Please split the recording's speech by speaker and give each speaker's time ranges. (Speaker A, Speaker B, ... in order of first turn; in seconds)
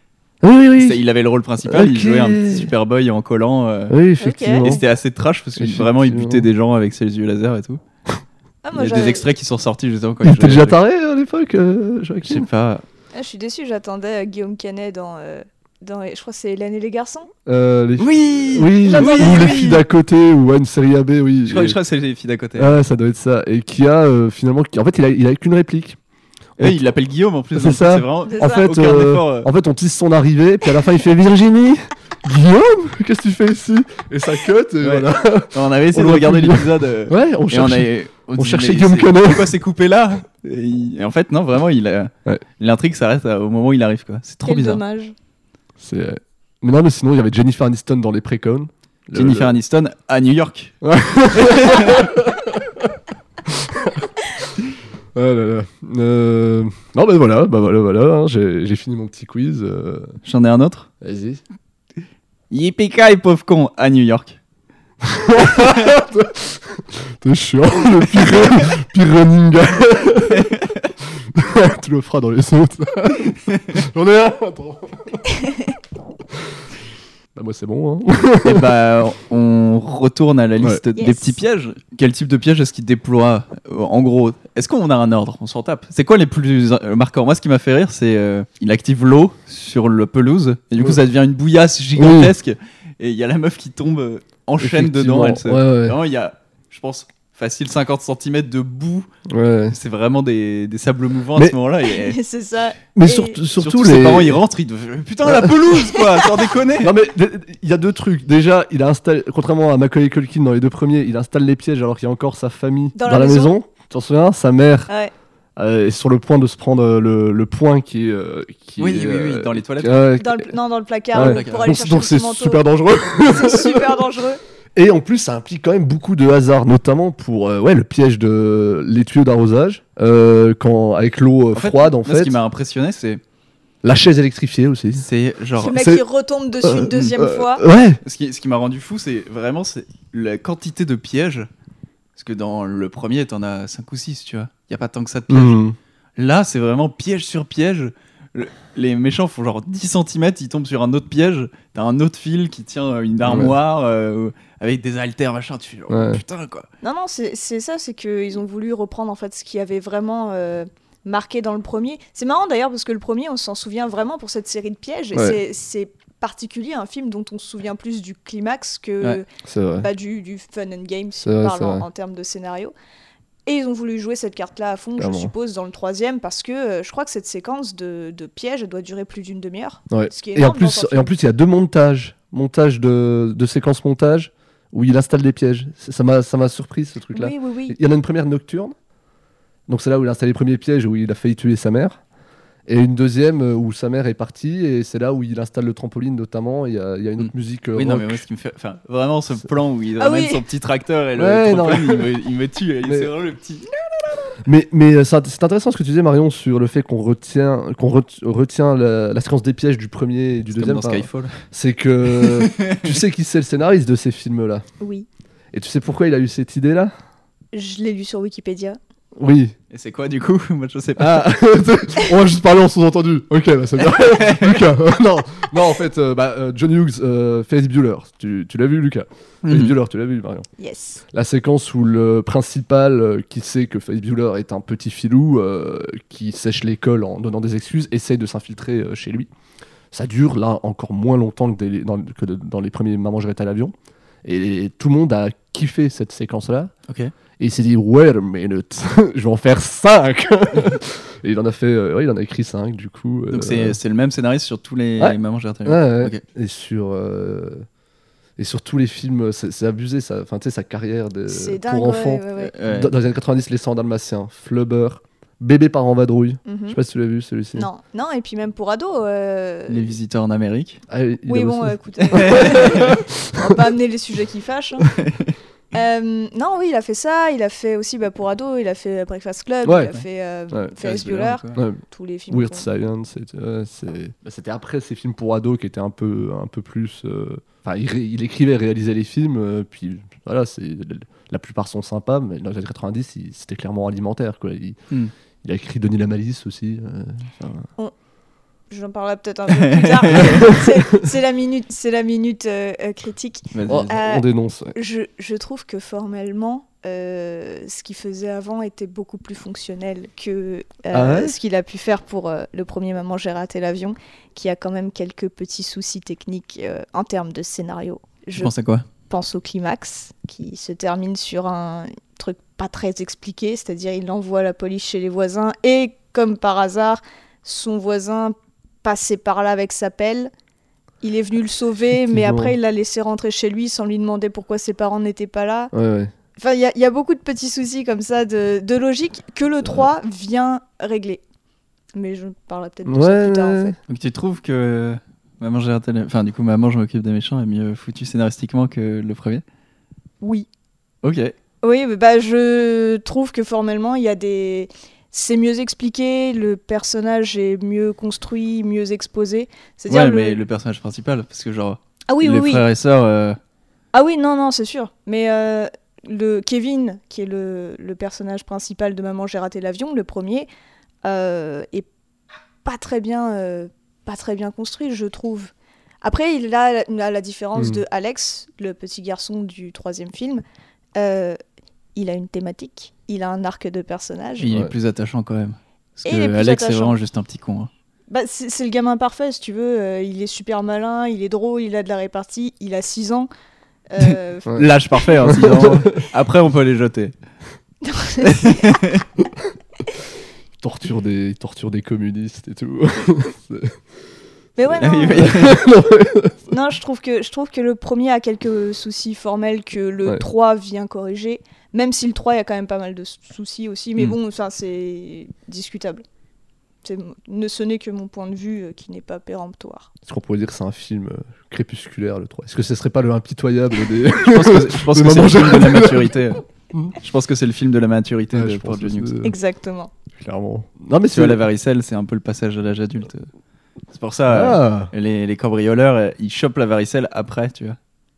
Speaker A: 0.4-1.0, 1.6-2.7, 3.9-4.8, 5.6-6.5, 10.2-12.5, 17.4-21.8, 22.6-26.0, 27.5-39.5, 45.8-49.5, 50.8-52.9, 53.5-54.1, 55.1-60.2, 61.0-61.4, 65.0-70.5, 71.3-75.2, 77.3-78.7, 92.0-92.3, 94.6-96.0, 99.3-99.8, 102.9-104.4, 105.2-105.7, 106.8-114.9, 115.6-120.5, 121.1-124.0, 124.7-132.3, 133.8-135.1, 135.7-136.0, 136.6-138.0, 145.3-145.8, 153.2-153.5, 155.9-156.2, 169.4-169.9, 171.2-171.8, 175.0-175.3, 179.9-188.7, 189.7-192.0, 192.7-198.2, 201.2-202.1, 202.8-203.1, 204.4-214.6, 215.5-216.9, 219.2-219.5, 221.0-230.5, 231.1-239.3, 239.9-243.7, 244.2-246.7, 247.4-253.8, 255.0-257.6, 258.4-267.7, 270.9-273.6, 279.6-279.9, 281.6-294.8, 295.4-297.7, 300.1-300.8, 303.7-304.7, 310.9-311.4, 332.1-332.5, 335.7-336.1, 342.9-343.7, 377.5-377.8, 384.5-384.7, 395.2-395.9, 400.6-403.7, 405.1-406.4, 420.1-426.9, 428.3-429.4, 430.1-431.4, 434.3-434.9
Speaker B: 0.8-4.0, 4.6-7.8, 8.7-10.8, 12.2-12.8, 18.0-19.8, 21.5-22.7, 26.6-29.5, 34.8-44.8, 49.1-50.8, 51.3-52.0, 60.2-60.9, 62.5-64.4, 70.3-70.8, 78.4-99.1, 99.7-102.2, 103.6-106.9, 118.8-120.1, 121.2-121.7, 131.5-133.2, 134.9-135.8, 138.0-141.5, 142.2-145.6, 146.2-156.7, 197.2-203.7, 210.5-211.3, 212.2-213.0, 219.7-221.3, 223.8-224.6, 229.4-229.7, 253.3-256.2, 262.5-262.9, 269.7-270.8, 272.1-272.9, 275.0-275.3, 280.8-281.6, 299.5-300.5, 303.5-303.9, 318.4-318.9, 343.9-349.4, 351.0-351.3, 359.9-363.4, 384.4-387.7, 394.0-397.1, 398.2-399.0, 404.8-405.6, 424.2-426.4, 427.0-429.1, 431.1-433.3, 433.9-437.8
Speaker C: 4.2-4.8, 8.6-9.3, 13.1-17.3, 18.9-19.4, 28.3-28.7, 44.4-45.1, 81.0-81.4, 101.9-103.4, 112.9-113.5, 120.2-122.6, 123.2-124.4, 135.6-137.6, 156.8-169.2, 169.8-172.7, 173.4-181.1, 187.1-187.8, 200.0-200.4, 214.8-215.1, 217.5-218.8, 230.6-231.0, 261.3-262.5, 266.4-266.8, 267.5-269.9, 271.3-274.9, 275.7-282.7, 298.7-318.5, 319.1-330.3, 331.0-335.7, 336.4-341.2, 341.9-343.7, 350.2-350.5, 351.6-360.4, 362.1-362.6, 363.9-370.5, 371.0-371.9, 372.6-380.4, 380.9-381.4, 381.9-384.5, 386.0-386.9, 388.1-393.3, 393.9-395.4, 397.8-398.6, 404.6-405.4, 406.5-416.0, 416.8-419.9, 429.2-429.9